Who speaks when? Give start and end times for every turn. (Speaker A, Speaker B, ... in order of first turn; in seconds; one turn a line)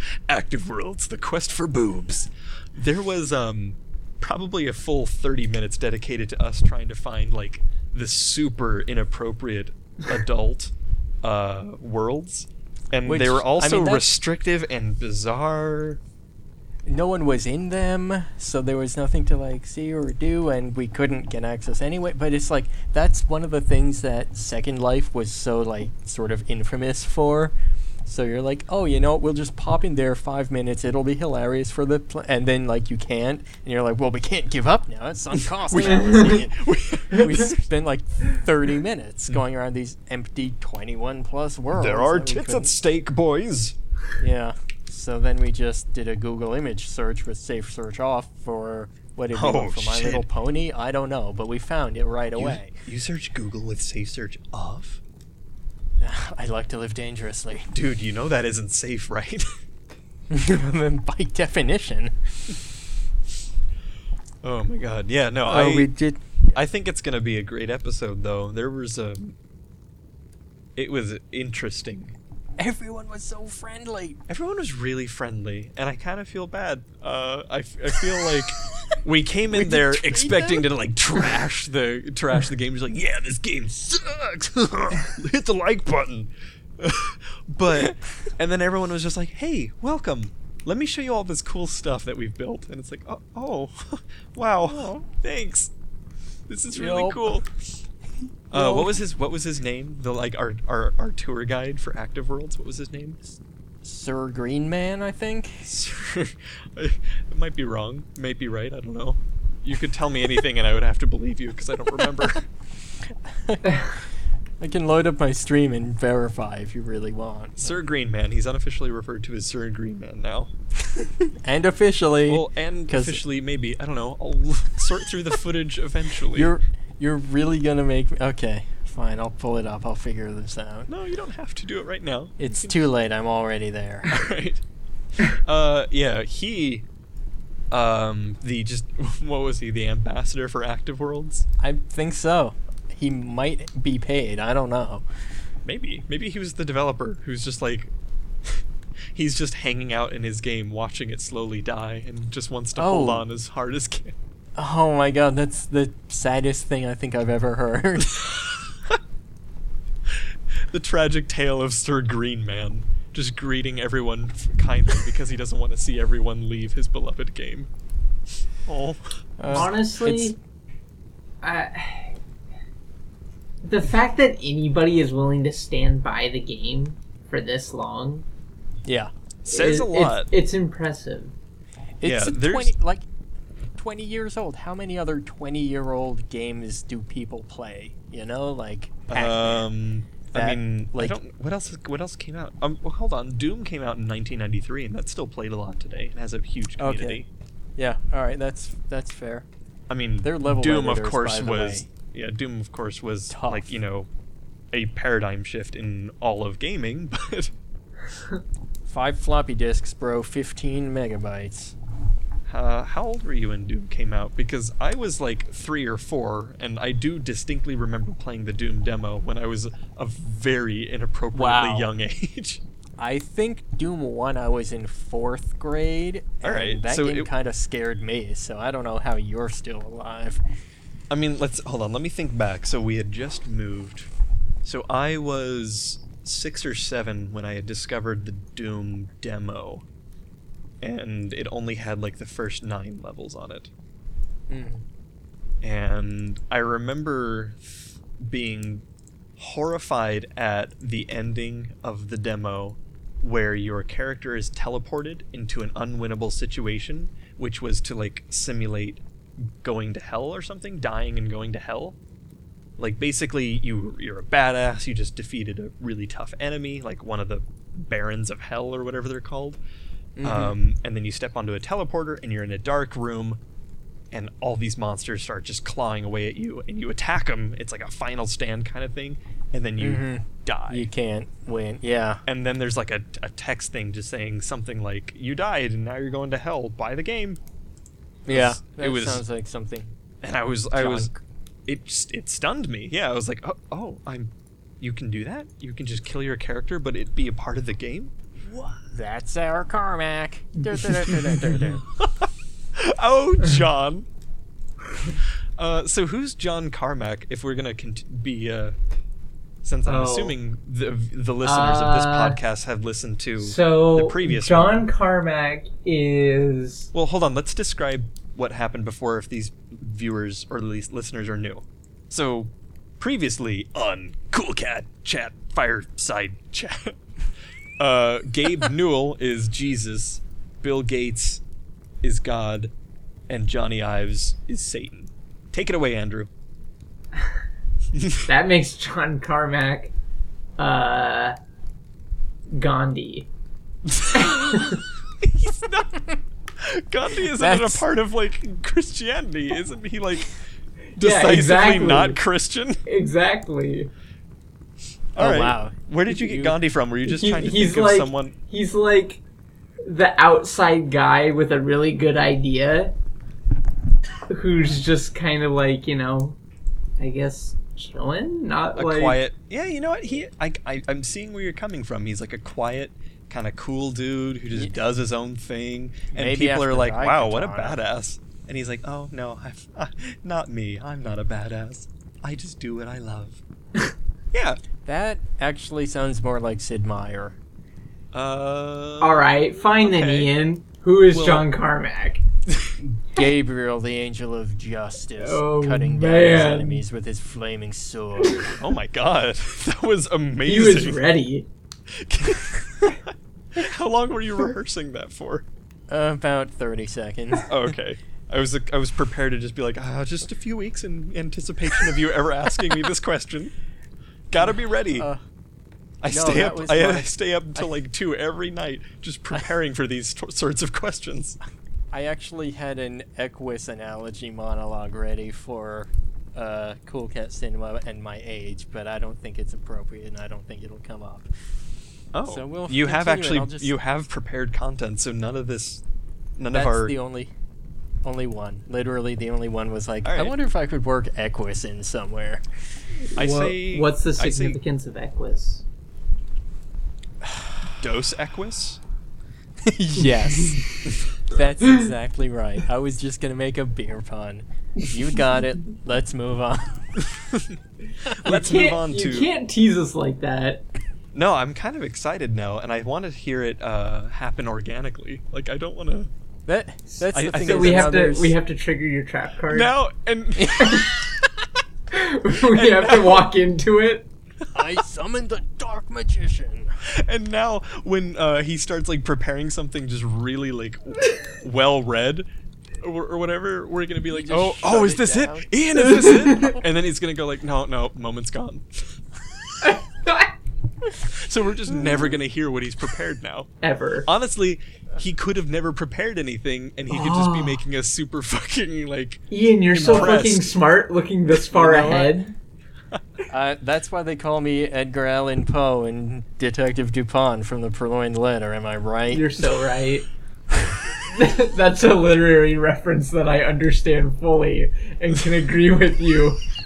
Speaker A: 0.3-16.0
Speaker B: 13.1-14.1
Speaker B: 16.9-27.5
Speaker B: 28.1-42.7
Speaker A: 35.6-37.5
Speaker C: 35.8-36.4
Speaker A: 41.7-43.8
Speaker B: 44.2-52.7
Speaker A: 49.3-50.3
Speaker A: 52.4-55.0
Speaker B: 56.0-57.7
Speaker A: 57.7-59.5
Speaker B: 60.3-62.6
Speaker A: 64.4-65.9
Speaker B: 65.5-66.6
Speaker A: 66.5-69.3
Speaker A: 70.8-72.2
Speaker B: 72.6-74.2
Speaker A: 74.3-95.7
Speaker B: 79.5-80.7
Speaker B: 94.7-95.0
Speaker A: 96.5-97.5
Speaker B: 96.7-97.3
Speaker A: 98.5-103.4
Speaker B: 98.5-99.0
Speaker B: 103.8-105.7
Speaker A: 105.6-112.4
Speaker B: 113.3-113.8
Speaker B: 114.6-117.8
Speaker A: 117.6-120.5
Speaker B: 120.9-123.2
Speaker A: 122.3-126.5
Speaker B: 126.3-130.9
Speaker A: 130.9-132.8
Speaker B: 132.4-134.1
Speaker A: 134.1-134.6
Speaker A: 135.2-136.8
Speaker A: 137.7-141.5
Speaker B: 141.6-145.0
Speaker A: 145.7-147.9
Speaker A: 149.2-154.2
Speaker B: 152.8-153.2
Speaker B: 154.6-158.3
Speaker A: 160.7-167.7
Speaker A: 168.7-169.7
Speaker B: 169.4-170.4
Speaker C: 169.5-170.4
Speaker C: 171.4-172.2
Speaker C: 173.6-178.2
Speaker B: 178.8-179.1
Speaker A: 179.4-180.3
Speaker C: 179.5-181.3
Speaker B: 182.0-183.0
Speaker A: 182.0-182.7
Speaker B: 183.8-189.7
Speaker A: 189.1-197.3
Speaker B: 190.3-191.2
Speaker B: 196.8-197.2
Speaker B: 197.8-199.5
Speaker A: 199.9-204.1
Speaker B: 200.2-201.9
Speaker B: 203.3-203.7
Speaker A: 204.7-207.5
Speaker B: 208.9-211.8
Speaker A: 212.5-222.6
Speaker B: 221.3-221.9
Speaker B: 223.0-230.4
Speaker A: 226.4-227.3
Speaker A: 231.1-234.1
Speaker A: 234.6-239.8
Speaker A: 240.8-243.7
Speaker B: 244.5-244.8
Speaker A: 245.6-248.8
Speaker A: 249.4-262.0
Speaker A: 262.8-269.6
Speaker B: 270.2-270.6
Speaker A: 270.2-273.4
Speaker A: 274.1-280.9
Speaker B: 279.8-282.2
Speaker A: 282.3-287.4
Speaker B: 288.3-289.9
Speaker A: 288.3-289.2
Speaker A: 290.2-291.1
Speaker B: 290.7-291.2
Speaker A: 291.7-298.1
Speaker B: 298.8-301.8
Speaker A: 302.0-304.1
Speaker A: 305.6-308.8
Speaker A: 309.6-314.8
Speaker C: 309.9-310.4
Speaker C: 311.4-312.4
Speaker C: 313.4-316.9
Speaker A: 316.9-327.0
Speaker A: 327.8-331.4
Speaker A: 332.0-332.7
Speaker A: 333.3-336.3
Speaker A: 337.9-338.2
Speaker C: 338.3-339.9
Speaker C: 340.6-341.4
Speaker C: 342.5-343.3
Speaker A: 343.9-344.6
Speaker C: 344.1-344.8
Speaker A: 345.2-345.9
Speaker A: 346.6-350.4
Speaker B: 347.3-347.9
Speaker C: 351.0-352.2
Speaker A: 351.0-352.8
Speaker C: 352.9-353.9
Speaker A: 355.2-358.4
Speaker B: 355.2-356.6
Speaker C: 357.1-359.2
Speaker C: 359.8-362.9
Speaker C: 364.3-366.4
Speaker C: 367.0-369.2
Speaker A: 368.8-383.4
Speaker B: 376.1-377.8
Speaker A: 384.3-384.6
Speaker B: 384.8-387.4
Speaker A: 388.1-389.3
Speaker C: 389.0-392.2
Speaker A: 389.8-390.3
Speaker A: 391.1-391.5
Speaker B: 392.8-398.6
Speaker C: 395.2-396.8
Speaker A: 398.6-401.0
Speaker C: 400.5-401.5
Speaker A: 401.9-405.5
Speaker B: 405.9-407.5
Speaker A: 407.5-413.5
Speaker A: 414.3-415.1
Speaker B: 414.9-415.2
Speaker A: 416.0-421.4
Speaker B: 416.1-417.7
Speaker B: 421.9-431.3
Speaker A: 432.1-435.8
Speaker B: 432.3-433.7
Speaker A: 436.4-436.9
Speaker B: 436.5-437.3
Speaker B: 438.0-442.4
Speaker A: 440.0-440.3
Speaker C: 443.1-445.6
Speaker A: 443.2-444.6
Speaker A: 447.8-448.8
Speaker B: 449.6-456.9
Speaker C: 450.0-450.6
Speaker C: 451.6-451.9
Speaker A: 457.0-459.3
Speaker C: 458.2-460.6
Speaker A: 461.1-466.1
Speaker B: 466.5-468.4
Speaker A: 467.1-467.9
Speaker C: 467.3-469.7
Speaker A: 469.5-470.9
Speaker B: 470.4-470.9
Speaker C: 471.9-474.1
Speaker A: 472.5-473.3
Speaker B: 474.5-476.7
Speaker A: 476.9-482.3
Speaker A: 482.8-489.8
Speaker B: 484.1-486.4
Speaker C: 486.1-486.4
Speaker C: 489.6-490.3
Speaker A: 490.9-493.5
Speaker C: 493.6-494.1
Speaker A: 494.1-500.5
Speaker C: 496.9-497.6
Speaker C: 499.3-502.3
Speaker B: 499.9-500.1
Speaker B: 501.5-502.2
Speaker B: 503.3-509.3
Speaker C: 509.1-510.1
Speaker C: 511.1-516.4